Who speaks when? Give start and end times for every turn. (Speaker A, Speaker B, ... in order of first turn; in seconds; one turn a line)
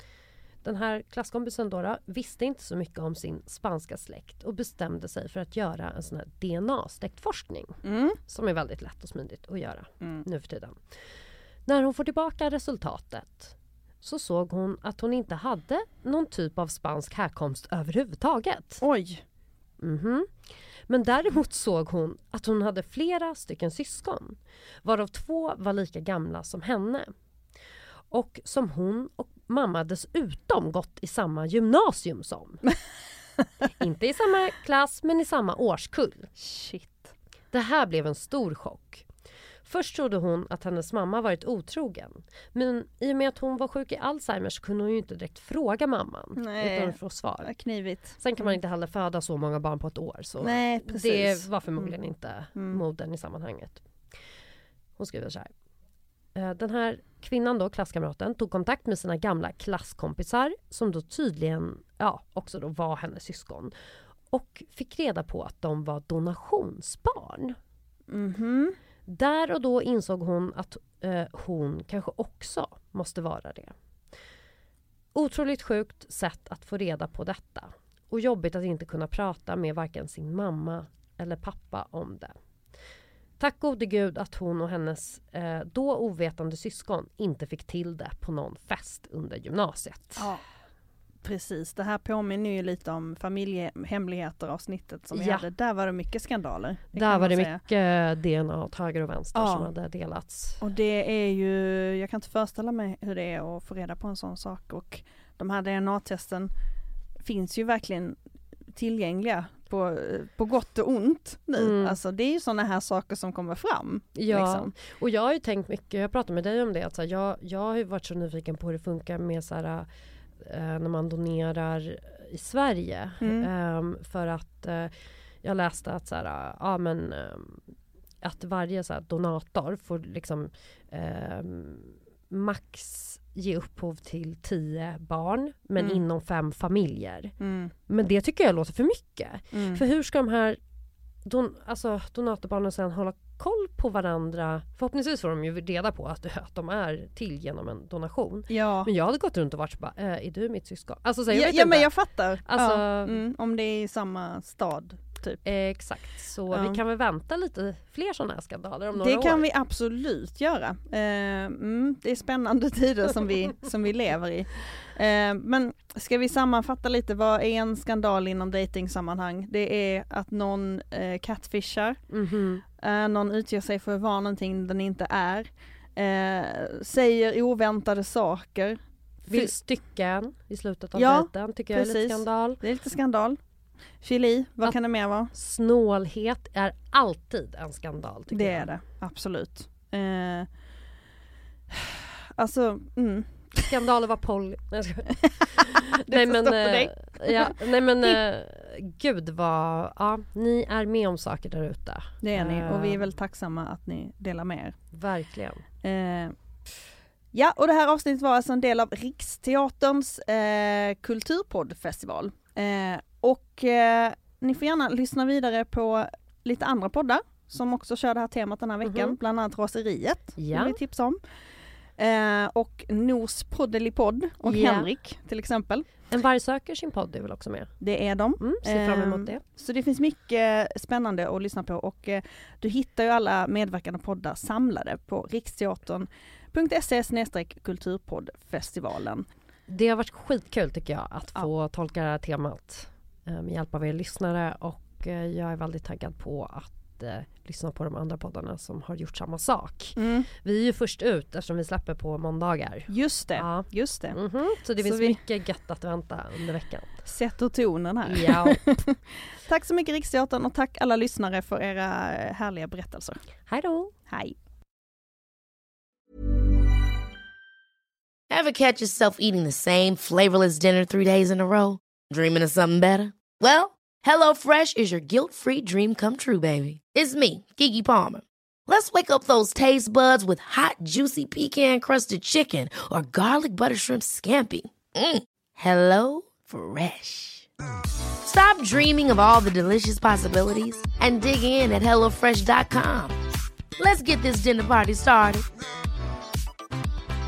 Speaker A: 0.6-10.8
Speaker B: 7.8-8.2
Speaker A: 11.7-18.8
Speaker B: 18.8-19.2
Speaker A: 19.8-20.3
Speaker A: 20.9-27.1
Speaker A: 28.1-32.6
Speaker A: 33.8-36.3
Speaker B: 36.4-37.1
Speaker A: 37.5-39.0
Speaker A: 39.7-47.5
Speaker B: 46.4-48.6
Speaker A: 48.2-53.8
Speaker B: 50.4-52.0
Speaker B: 52.5-52.8
Speaker A: 55.0-55.5
Speaker A: 56.4-63.7
Speaker A: 64.3-67.6
Speaker B: 68.1-68.8
Speaker A: 69.1-73.8
Speaker A: 75.2-82.3
Speaker A: 83.4-90.3
Speaker B: 90.2-90.4
Speaker B: 91.2-97.6
Speaker A: 95.1-95.5
Speaker A: 96.9-100.6
Speaker B: 99.3-99.7
Speaker B: 100.6-106.5
Speaker B: 107.2-108.2
Speaker B: 108.7-114.7
Speaker A: 111.6-112.0
Speaker A: 114.2-119.9
Speaker A: 120.4-124.9
Speaker B: 123.2-123.5
Speaker A: 125.4-127.7
Speaker A: 128.2-137.3
Speaker B: 135.8-136.0
Speaker B: 137.4-137.7
Speaker A: 137.9-140.6
Speaker B: 139.5-139.8
Speaker A: 141.2-153.2
Speaker B: 148.5-148.9
Speaker B: 151.3-155.4
Speaker A: 155.4-159.4
Speaker B: 156.5-156.8
Speaker B: 159.0-172.0
Speaker A: 172.1-172.6
Speaker B: 172.8-179.5
Speaker A: 179.3-182.6
Speaker B: 180.9-183.4
Speaker B: 184.0-185.3
Speaker A: 185.3-188.7
Speaker B: 188.3-190.5
Speaker B: 191.7-193.8
Speaker A: 193.7-203.1
Speaker B: 195.2-198.2
Speaker B: 202.2-204.8
Speaker A: 204.9-205.7
Speaker B: 205.8-206.3
Speaker B: 207.3-221.2
Speaker A: 218.8-219.2
Speaker A: 220.4-220.8
Speaker B: 222.0-225.9
Speaker A: 224.4-224.9
Speaker A: 226.1-227.7
Speaker B: 227.8-239.3
Speaker A: 228.4-229.4
Speaker A: 239.7-257.1
Speaker B: 250.0-250.3
Speaker B: 252.9-254.2
Speaker B: 254.8-255.2
Speaker B: 257.1-263.2
Speaker A: 258.1-258.6
Speaker A: 263.5-263.9
Speaker B: 264.1-264.4
Speaker C: 268.3-287.5
Speaker C: 288.2-293.2
Speaker C: 293.8-295.4